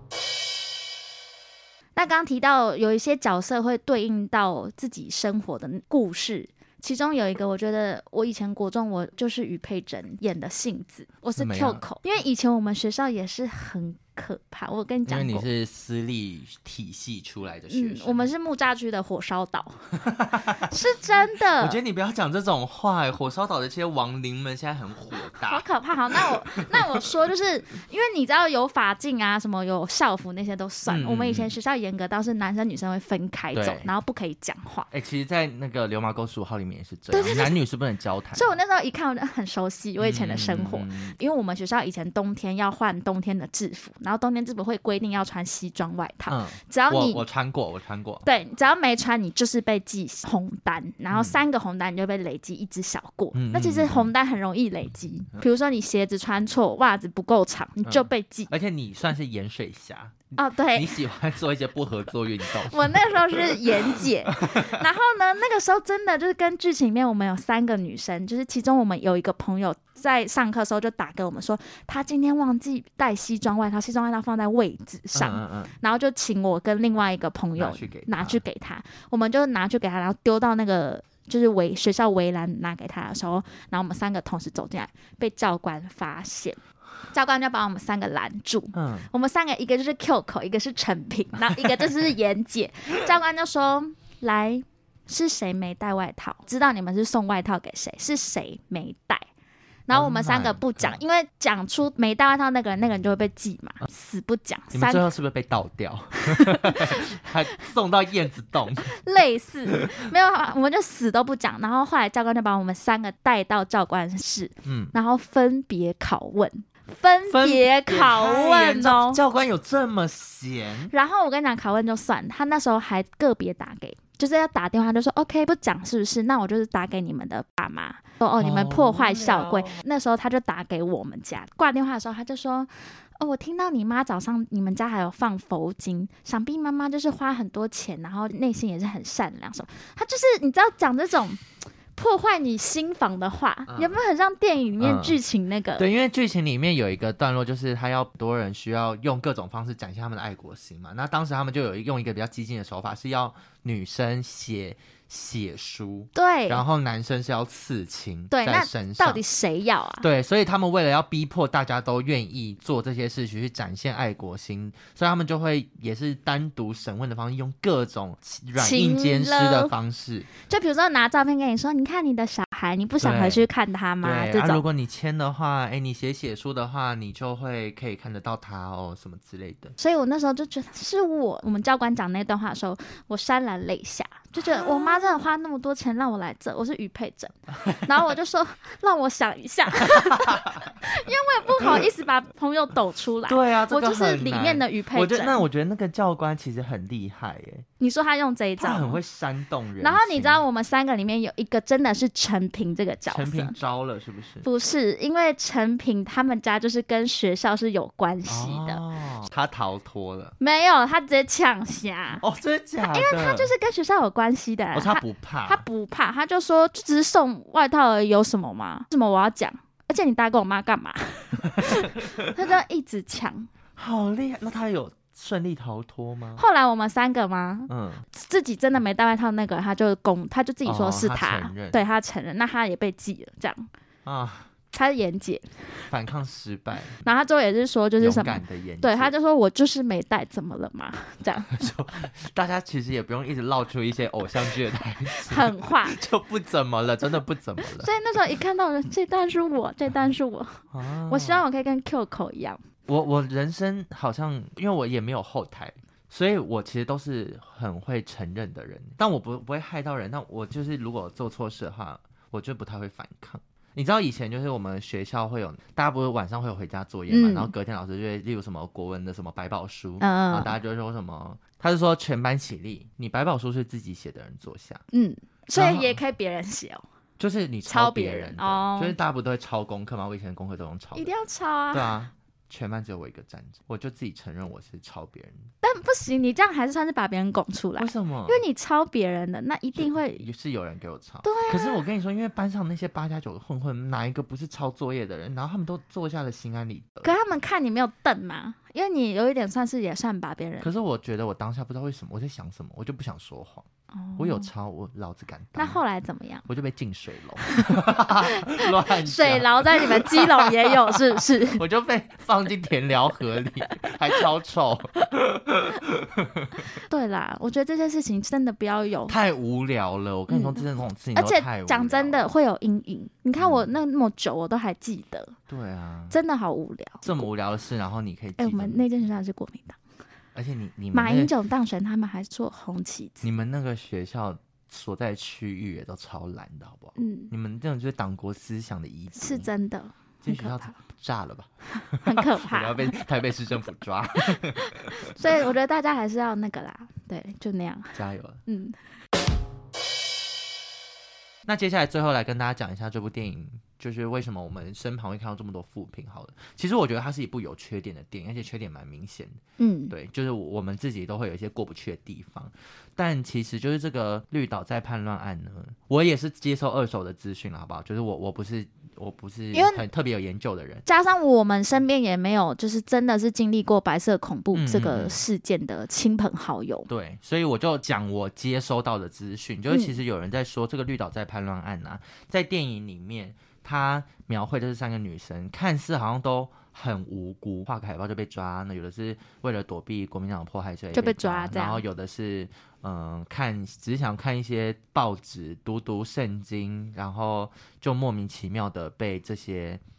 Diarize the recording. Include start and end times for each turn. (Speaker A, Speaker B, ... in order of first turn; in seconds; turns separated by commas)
Speaker A: 1.9-15.4, Speaker B: 11.3-11.8, Speaker B: 15.1-18.3, Speaker A: 17.7-19.9, Speaker B: 20.0-20.7, Speaker A: 20.6-21.8, Speaker B: 21.6-25.6, Speaker A: 25.3-34.9, Speaker B: 26.2-27.0, Speaker B: 30.9-31.5, Speaker B: 33.5-33.9, Speaker B: 34.9-38.5, Speaker A: 37.1-37.5, Speaker A: 38.3-47.2, Speaker B: 40.0-41.1, Speaker B: 46.3-48.2, Speaker A: 48.2-58.5, Speaker B: 51.1-51.4, Speaker B: 53.3-54.1, Speaker B: 57.9-64.8, Speaker A: 60.4-61.0, Speaker A: 62.5-86.6, Speaker B: 75.1-75.7, Speaker B: 77.5-78.4, Speaker A: 87.1-99.3, Speaker B: 88.7-89.1, Speaker A: 99.9-105.0, Speaker B: 99.9-101.0, Speaker B: 104.7-109.0, Speaker A: 106.2-107.1, Speaker A: 108.8-119.2, Speaker B: 109.7-110.0, Speaker B: 114.6-114.9, Speaker B: 117.3-120.9, Speaker A: 120.9-141.4, Speaker B: 128.4-129.8, Speaker A: 141.9-145.8, Speaker B: 143.7-144.0, Speaker B: 144.8-145.2, Speaker B: 145.8-159.2, Speaker A: 156.1-156.6, Speaker A: 158.3-160.0, Speaker B: 160.0-170.3, Speaker A: 168.6-169.7, Speaker A: 170.3-174.6, Speaker B: 173.0-173.4, Speaker B: 174.0-179.8, Speaker A: 179.8-195.4, Speaker B: 190.0-190.6, Speaker B: 193.3-197.7, Speaker A: 197.8-199.0, Speaker B: 198.6-200.4, Speaker A: 199.8-203.5, Speaker B: 203.1-204.4, Speaker A: 204.4-208.8, Speaker B: 208.3-210.3, Speaker A: 210.4-212.2, Speaker B: 212.2-213.5, Speaker A: 212.9-223.5, Speaker B: 214.7-215.6, Speaker B: 221.4-222.4, Speaker B: 223.8-226.4, Speaker A: 226.4-233.7, Speaker B: 227.7-228.1, Speaker B: 230.6-231.8, Speaker B: 234.1-234.5, Speaker A: 234.7-235.8, Speaker B: 235.9-237.0, Speaker A: 237.0-241.7, Speaker B: 238.0-239.1, Speaker B: 241.5-247.9, Speaker A: 245.1-246.0, Speaker A: 247.6-252.6, Speaker B: 250.7-251.4, Speaker B: 252.9-274.8, Speaker A: 267.1-267.5, Speaker A: 270.0-270.5, Speaker A: 274.9-276.8, Speaker B: 275.5-276.0, Speaker B: 277.2-281.1, Speaker A: 277.7-279.0, Speaker A: 280.9-281.9, Speaker B: 281.7-285.5, Speaker A: 285.6-290.2, Speaker B: 287.8-288.4, Speaker B: 289.8-297.1, Speaker A: 291.2-291.8, Speaker A: 297.0-300.7, Speaker B: 300.6-305.8, Speaker A: 303.9-304.5, Speaker A: 305.6-306.4, Speaker B: 306.4-316.8, Speaker A: 308.4-311.6, Speaker A: 316.8-319.1, Speaker B: 319.1-322.3, Speaker A: 320.3-325.3, Speaker B: 323.4-323.7, Speaker B: 325.5-326.2, Speaker A: 326.1-327.2, Speaker B: 327.0-328.9, Speaker A: 328.4-329.8, Speaker B: 330.3-331.3, Speaker A: 330.9-333.3, Speaker B: 333.2-339.5, Speaker A: 337.0-337.3, Speaker A: 339.1-340.7, Speaker B: 340.2-345.2, Speaker A: 342.0-342.9, Speaker A: 345.0-347.9, Speaker B: 347.9-348.4, Speaker A: 348.5-348.8, Speaker B: 351.4-370.8, Speaker A: 359.6-359.9, Speaker A: 369.5-369.8, Speaker A: 370.9-376.9, Speaker B: 374.5-375.2, Speaker B: 376.9-399.8, Speaker A: 390.9-391.8